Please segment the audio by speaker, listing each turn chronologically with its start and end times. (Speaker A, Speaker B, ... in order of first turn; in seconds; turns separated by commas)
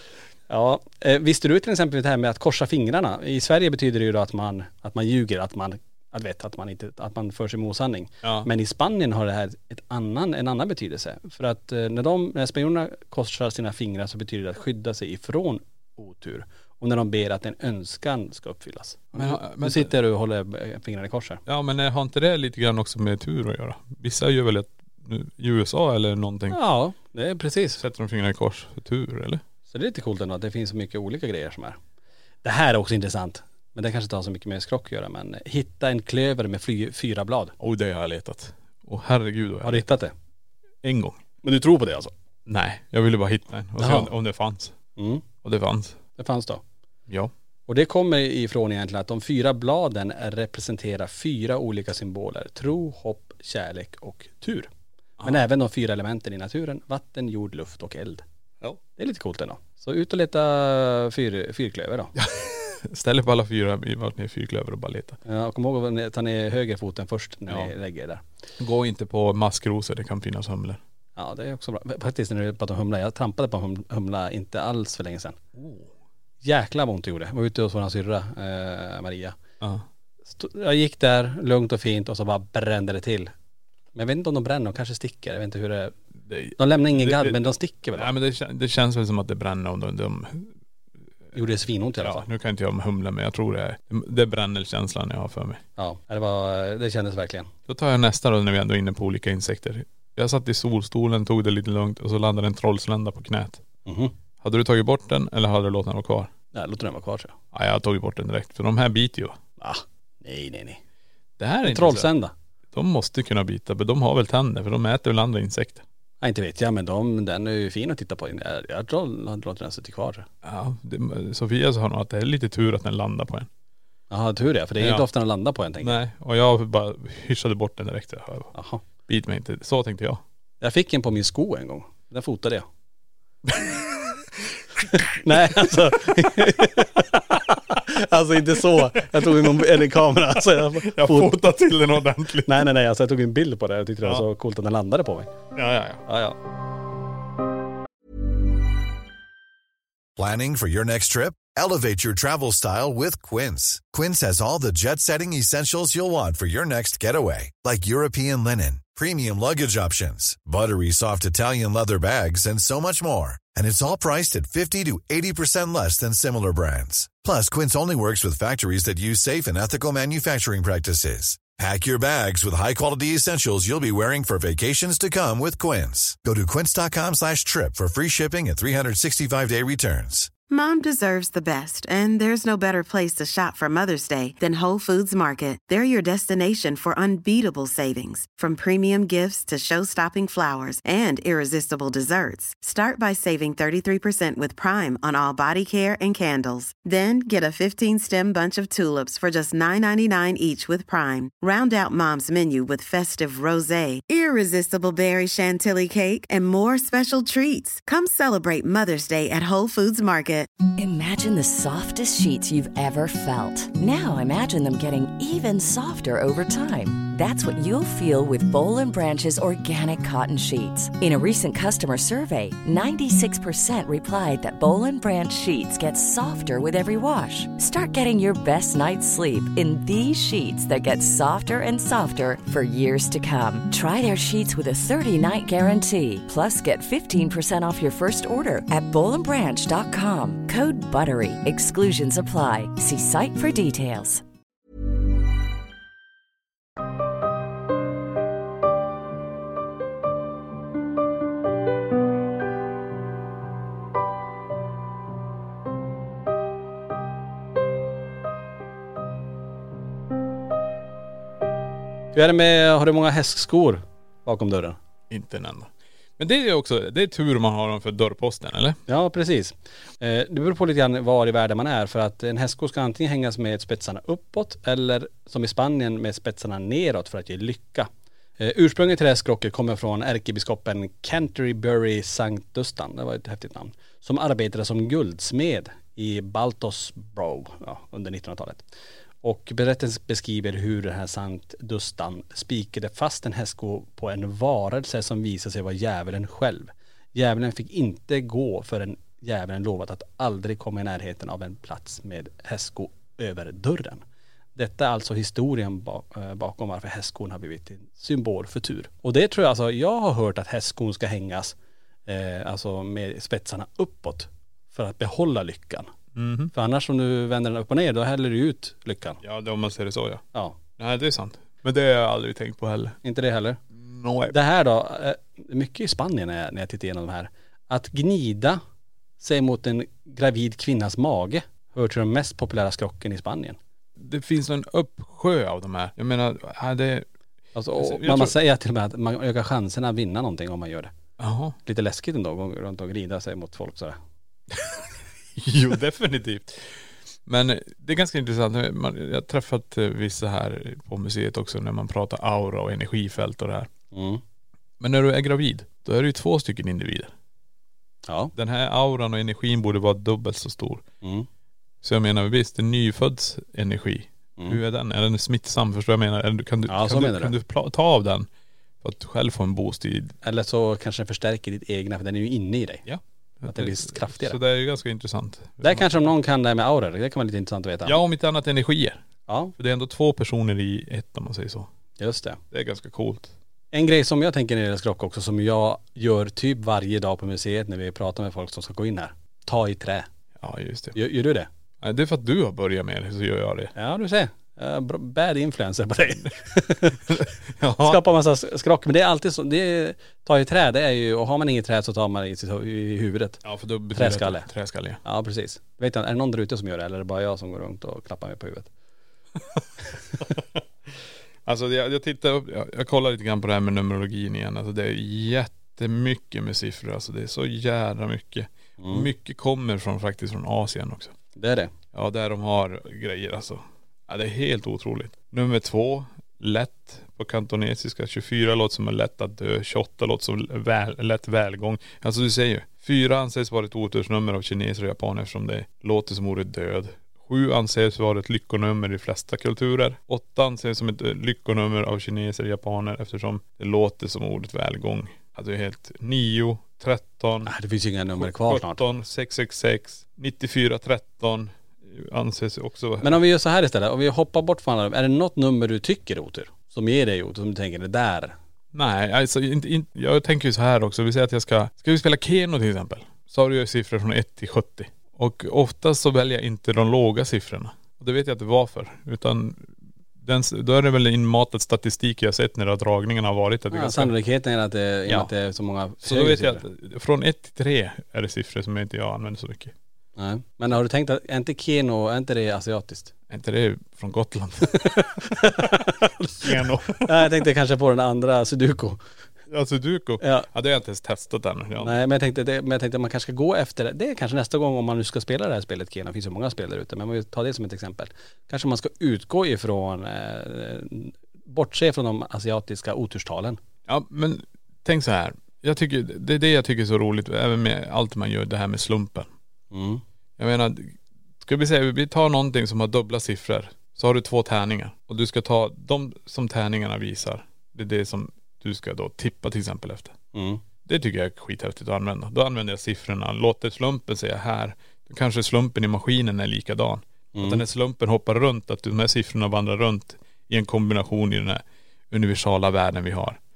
Speaker A: 0.5-21.4, Speaker B: 8.2-8.5, Speaker B: 19.2-19.9, Speaker B: 21.5-26.6, Speaker A: 26.5-27.8, Speaker B: 27.8-29.4, Speaker A: 29.7-31.8, Speaker A: 32.4-37.5, Speaker B: 37.6-39.8, Speaker A: 39.6-40.1, Speaker B: 40.8-41.2, Speaker A: 41.4-42.1, Speaker B: 42.5-44.8, Speaker A: 43.8-44.1, Speaker A: 45.0-45.2, Speaker B: 45.4-46.0, Speaker A: 46.2-46.6, Speaker A: 47.7-54.7, Speaker A: 55.2-58.2, Speaker A: 59.0-62.1, Speaker B: 62.2-65.2, Speaker A: 65.3-68.2, Speaker B: 68.6-70.8, Speaker A: 71.2-75.4, Speaker B: 75.6-75.9, Speaker A: 76.4-79.4, Speaker A: 80.3-83.3, Speaker A: 84.0-86.0, Speaker B: 86.3-90.5, Speaker A: 86.6-88.1, Speaker A: 91.3-92.3, Speaker B: 92.0-95.6, Speaker A: 95.8-97.5, Speaker B: 97.7-103.6, Speaker A: 103.9-104.1, Speaker B: 104.4-106.3, Speaker A: 106.5-107.3, Speaker B: 107.5-109.4, Speaker A: 109.6-110.8, Speaker B: 111.4-112.1, Speaker A: 111.7-112.3, Speaker B: 112.7-115.8, Speaker A: 116.2-120.3, Speaker B: 120.4-123.5, Speaker A: 124.1-126.0, Speaker B: 124.8-125.0, Speaker B: 125.8-128.5, Speaker A: 128.6-128.8, Speaker B: 129.1-130.2, Speaker A: 130.6-132.7, Speaker B: 133.5-134.1, Speaker A: 134.8-141.4, Speaker B: 140.8-142.7, Speaker A: 142.5-145.3, Speaker B: 145.6-146.0, Speaker A: 146.1-146.4, Speaker C: 150.2-180.3, Speaker D: 180.4-210.5, Speaker E: 210.8-244.2, Speaker A: 262.1-264.8, Speaker B: 265.1-268.8, Speaker A: 268.9-288.6, Speaker A: 289.2-304.0, Speaker A: 304.6-311.6, Speaker A: 312.1-315.9, Speaker B: 316.2-316.5, Speaker A: 316.5-319.2, Speaker B: 319.2-320.2, Speaker B: 320.8-323.0, Speaker A: 323.0-323.6, Speaker B: 323.7-324.4, Speaker A: 324.3-328.6, Speaker A: 329.2-333.6, Speaker B: 334.0-337.1, Speaker A: 337.6-340.9, Speaker B: 337.8-338.4, Speaker B: 341.2-341.6, Speaker A: 341.6-344.0, Speaker B: 344.5-344.8, Speaker B: 345.4-346.7, Speaker B: 347.3-353.7, Speaker A: 353.9-354.2, Speaker B: 354.8-357.1, Speaker A: 358.1-358.3, Speaker B: 358.4-360.8, Speaker B: 361.8-368.3, Speaker A: 366.7-367.3, Speaker B: 368.8-370.1, Speaker A: 370.2-372.8, Speaker B: 372.9-376.1, Speaker A: 373.5-374.4, Speaker A: 375.6-378.0, Speaker B: 377.9-379.0, Speaker A: 379.3-379.5, Speaker B: 379.6-381.7, Speaker A: 382.0-382.4, Speaker B: 382.5-383.3, Speaker A: 383.7-390.1, Speaker B: 390.4-391.0, Speaker A: 391.0-391.5, Speaker B: 391.8-393.7, Speaker A: 393.8-397.1, Speaker B: 397.1-398.0, Speaker A: 397.8-403.4, Speaker B: 403.4-405.0, Speaker A: 403.9-404.5, Speaker A: 405.1-408.7, Speaker B: 411.5-421.1, Speaker A: 418.8-419.1, Speaker A: 421.4-421.7, Speaker B: 421.9-447.5, Speaker A: 447.5-448.8, Speaker B: 448.2-453.2, Speaker A: 453.0-458.4, Speaker B: 458.7-474.1, Speaker A: 473.7-476.6, Speaker B: 476.0-479.7, Speaker A: 480.2-483.1, Speaker B: 483.3-485.6, Speaker A: 484.8-489.0, Speaker B: 486.4-487.4, Speaker B: 489.5-492.0, Speaker A: 490.2-490.5, Speaker A: 491.8-503.6, Speaker B: 503.9-509.3, Speaker A: 509.7-510.0, Speaker B: 510.4-520.1, Speaker A: 520.4-520.6, Speaker B: 520.9-533.4, Speaker A: 527.4-527.6